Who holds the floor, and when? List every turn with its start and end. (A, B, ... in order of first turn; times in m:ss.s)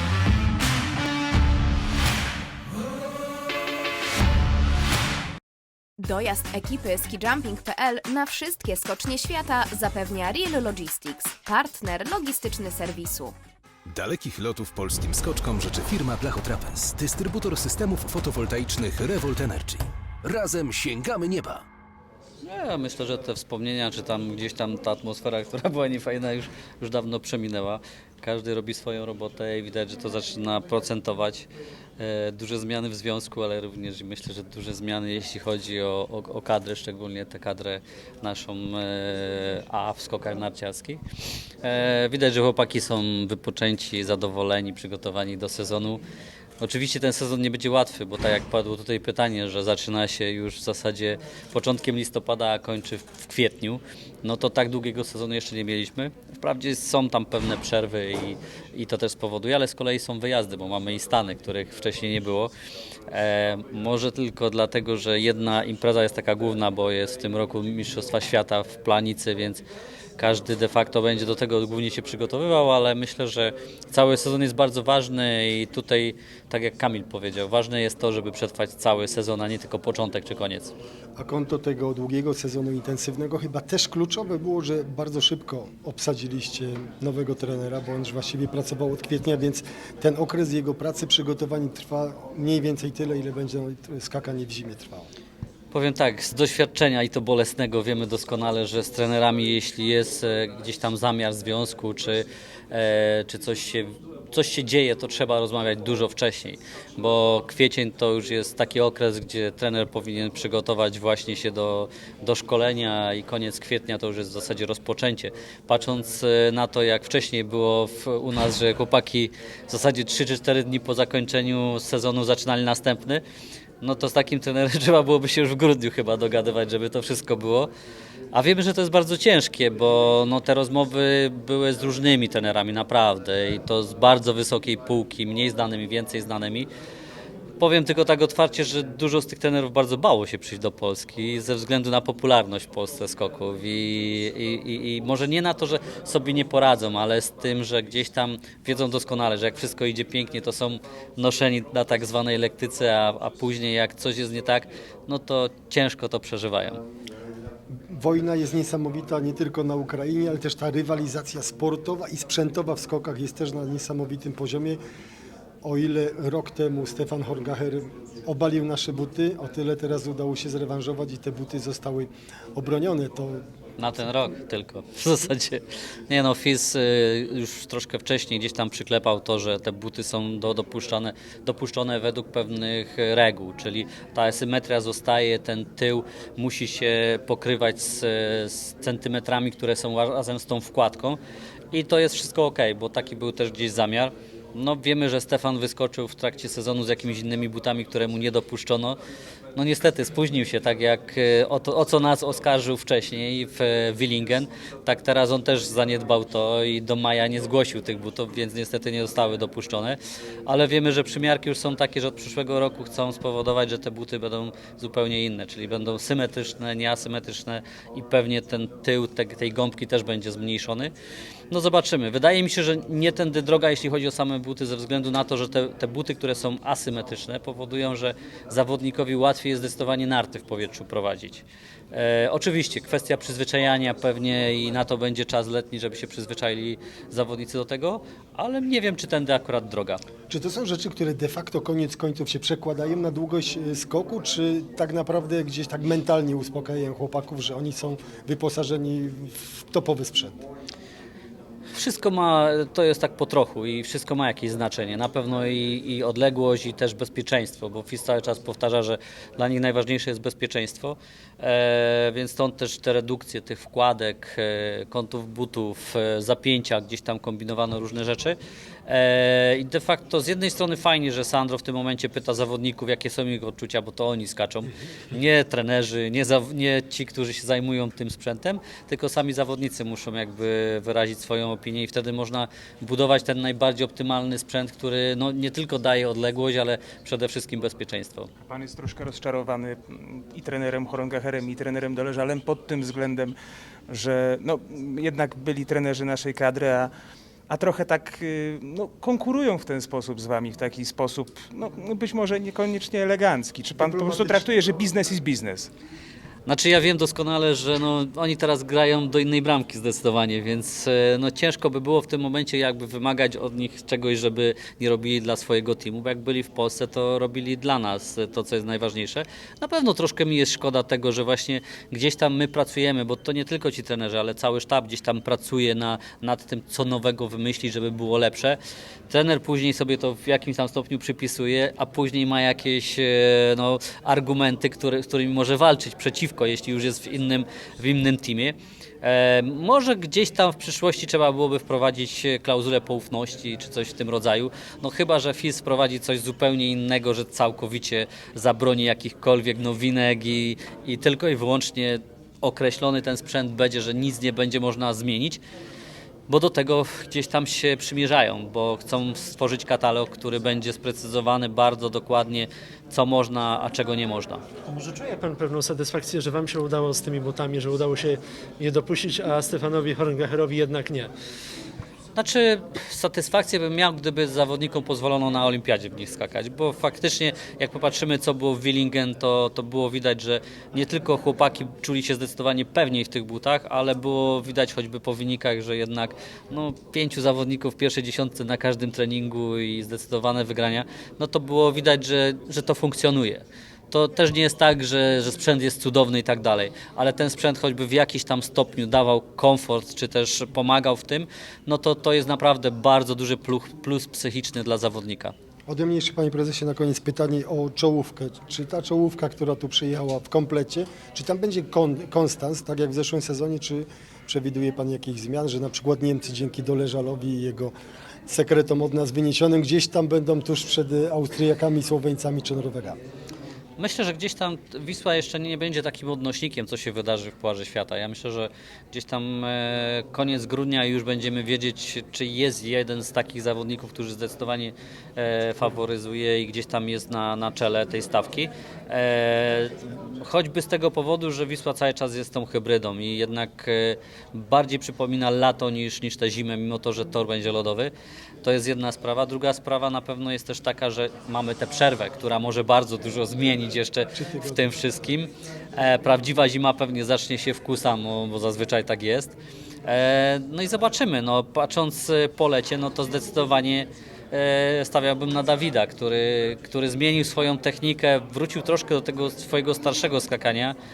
0:06.0-0:13.4 A
0:13.9-0:21.6 B
0:22.4-0:31.5 C
0:32.0-0:41.0 C
0:41.6-0:46.0 C
0:46.6-1:02.5 C
1:03.1-1:09.6 C
1:10.2-1:20.7 C
1:21.2-1:35.1 D
1:35.7-2:03.2 C
2:03.8-2:07.7 C
2:08.3-2:16.7 C
2:17.6-2:36.8 C
2:37.9-2:44.8 D
2:45.6-2:53.4 D
2:53.8-3:11.2 C
3:11.7-3:19.0 C
3:19.6-3:40.9 C
3:41.5-4:00.0 C
4:00.3-4:10.4 D
4:11.7-4:48.3 C
4:48.5-4:53.4 E
4:53.9-4:56.9 E
4:57.5-5:05.7 E
5:03.8-5:04.2 D
5:06.5-5:55.4 C
5:56.3-6:04.4 C
6:04.7-6:11.1 F
6:12.2-6:45.3 C
6:45.7-6:57.7 D
6:58.3-7:03.0 D
7:03.8-7:27.9 C
7:28.4-7:50.8 C
7:34.2-7:34.6 D